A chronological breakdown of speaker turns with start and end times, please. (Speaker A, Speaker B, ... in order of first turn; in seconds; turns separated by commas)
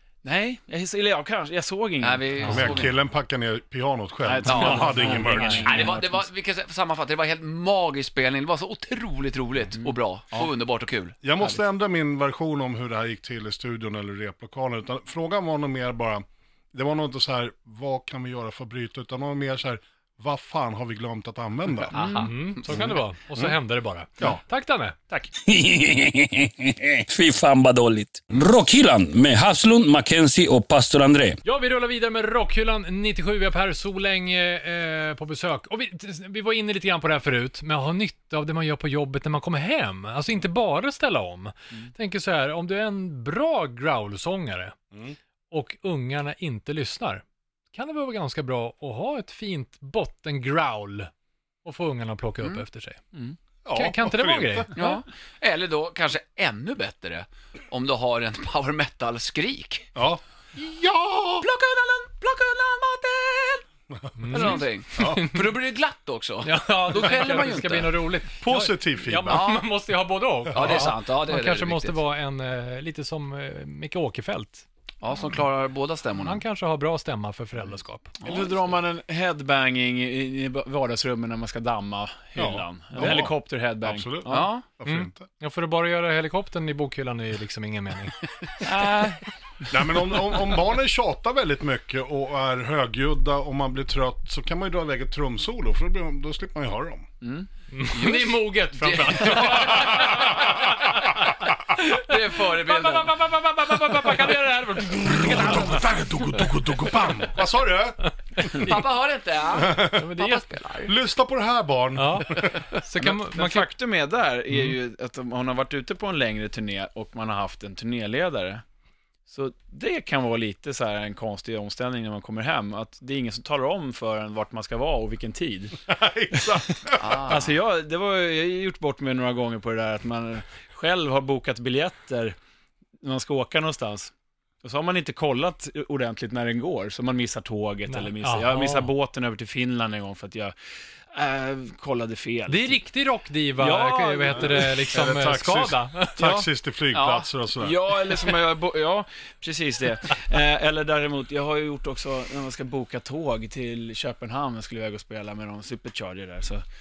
Speaker A: 0.2-2.7, Speaker B: 2.0-3.0, Speaker C: 2.4-2.7, Speaker D: 2.5-5.9, Speaker A: 4.2-6.2, Speaker B: 4.4-11.2, Speaker C: 4.9-5.7, Speaker A: 9.7-10.5, Speaker D: 11.2-21.9, Speaker B: 21.9-22.9, Speaker A: 21.9-22.3, Speaker C: 22.1-25.0, Speaker E: 25.4-31.4, Speaker C: 31.4-44.8, Speaker C: 45.5-51.1, Speaker C: 51.6-53.0, Speaker D: 53.6-54.7, Speaker C: 53.7-54.9, Speaker B: 54.8-59.9, Speaker D: 59.9-60.2, Speaker B: 60.6-63.6, Speaker D: 63.9-65.3, Speaker C: 64.2-65.4, Speaker B: 64.3-68.0, Speaker C: 66.4-74.7, Speaker D: 68.4-69.5, Speaker B: 69.3-69.6, Speaker D: 70.5-70.9, Speaker B: 70.5-72.0, Speaker B: 75.0-76.4, Speaker C: 76.2-78.2, Speaker B: 78.2-78.5, Speaker A: 78.2-84.5, Speaker D: 82.3-85.3, Speaker B: 84.3-84.6, Speaker C: 84.8-88.2, Speaker B: 88.6-89.1, Speaker A: 88.6-89.2, Speaker D: 89.7-97.1, Speaker A: 97.2-97.5, Speaker C: 97.7-107.0, Speaker B: 97.9-100.8, Speaker D: 99.5-100.7, Speaker B: 101.9-103.3, Speaker D: 104.9-108.7, Speaker C: 108.4-108.8, Speaker B: 108.4-110.9, Speaker D: 109.5-110.1, Speaker C: 109.9-110.4, Speaker D: 110.8-112.6, Speaker C: 112.0-113.7, Speaker A: 113.0-118.6, Speaker C: 114.5-114.8, Speaker A: 119.3-125.8, Speaker D: 125.8-127.4, Speaker A: 126.3-126.7, Speaker B: 126.9-127.5, Speaker A: 127.2-132.3, Speaker A: 133.0-140.5, Speaker C: 137.9-138.9, Speaker A: 141.1-142.8, Speaker C: 142.5-146.2, Speaker A: 143.6-144.8, Speaker D: 144.3-148.0, Speaker A: 146.2-146.5, Speaker B: 146.9-147.3, Speaker A: 147.6-156.6